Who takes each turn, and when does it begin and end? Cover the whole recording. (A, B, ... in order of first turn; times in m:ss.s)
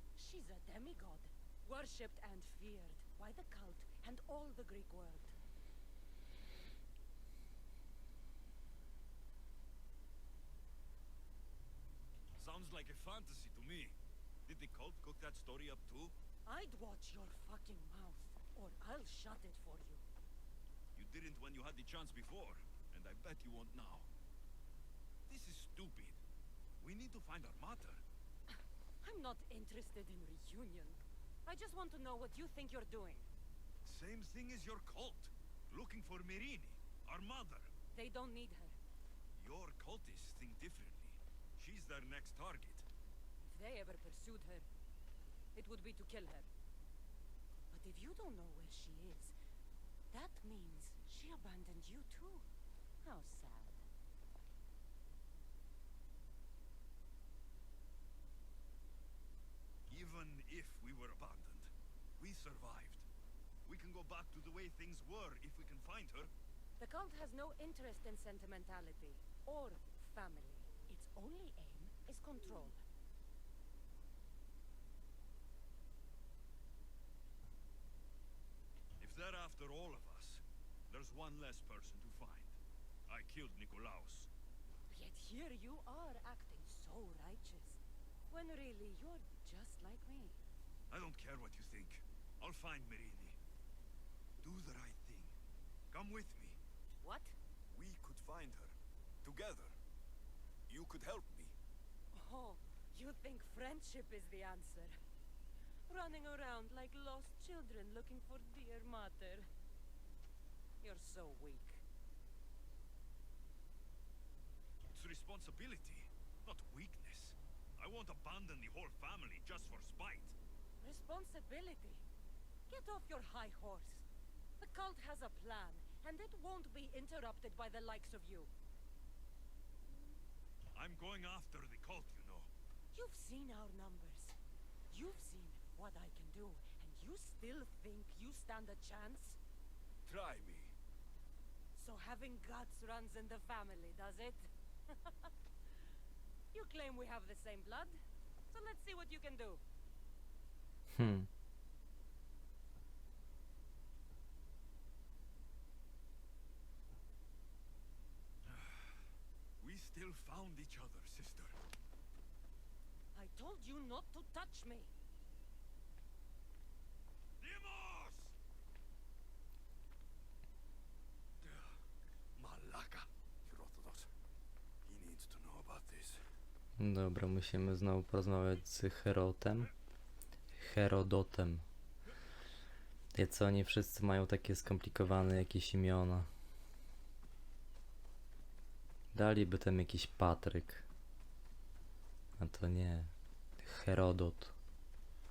0:00.2-0:05.4 A
0:12.4-0:16.2 B
0:16.5-0:20.0 A
0:21.0-0:24.1 B
0:25.3-0:26.2 B
0:26.8-0:28.0 B
0:28.5-0:33.3 A
0:33.8-0:37.7 B
0:37.9-0:38.8 A
0:39.4-0:42.9 B
0:43.4-0:44.7 A
0:45.6-0:46.5 A
0:47.7-0:49.4 A
0:50.1-0:52.5 A
0:53.0-0:53.9 A
0:59.9-1:03.1 B
1:03.6-1:06.3 B
1:06.8-1:12.8 A
1:19.0-1:24.3 B
1:24.9-1:30.4 A
1:30.9-1:33.4 B
1:34.4-1:35.4 B
1:35.9-1:36.6 B
1:37.0-1:37.4 A
1:37.7-1:39.8 B
1:40.7-1:41.6 B
1:42.1-1:45.0 A
1:45.9-1:49.5 A
1:50.8-1:51.8 A
1:54.9-2:00.4 B
2:00.8-2:02.0 A
2:02.7-2:04.0 A
2:04.6-2:08.5 A
2:10.8-2:12.5 B
2:12.9-2:14.4 A
2:14.9-2:19.4 A
2:20.0-2:20.8 B
2:21.8-2:25.3 A
2:26.5-2:28.0 A
2:28.5-2:29.6 A
2:30.9-2:31.3 C
2:38.5-2:39.0 B
2:39.6-2:41.6 B
2:43.1-2:44.9 A
2:47.4-2:48.4 B
2:51.4-2:51.8 B
2:52.4-2:54.1 B
2:54.8-2:56.2 B
2:56.8-2:59.7 C
3:00.5-3:01.7 C
3:03.1-3:06.3 C
3:09.1-3:10.9 C
3:12.4-3:14.6 C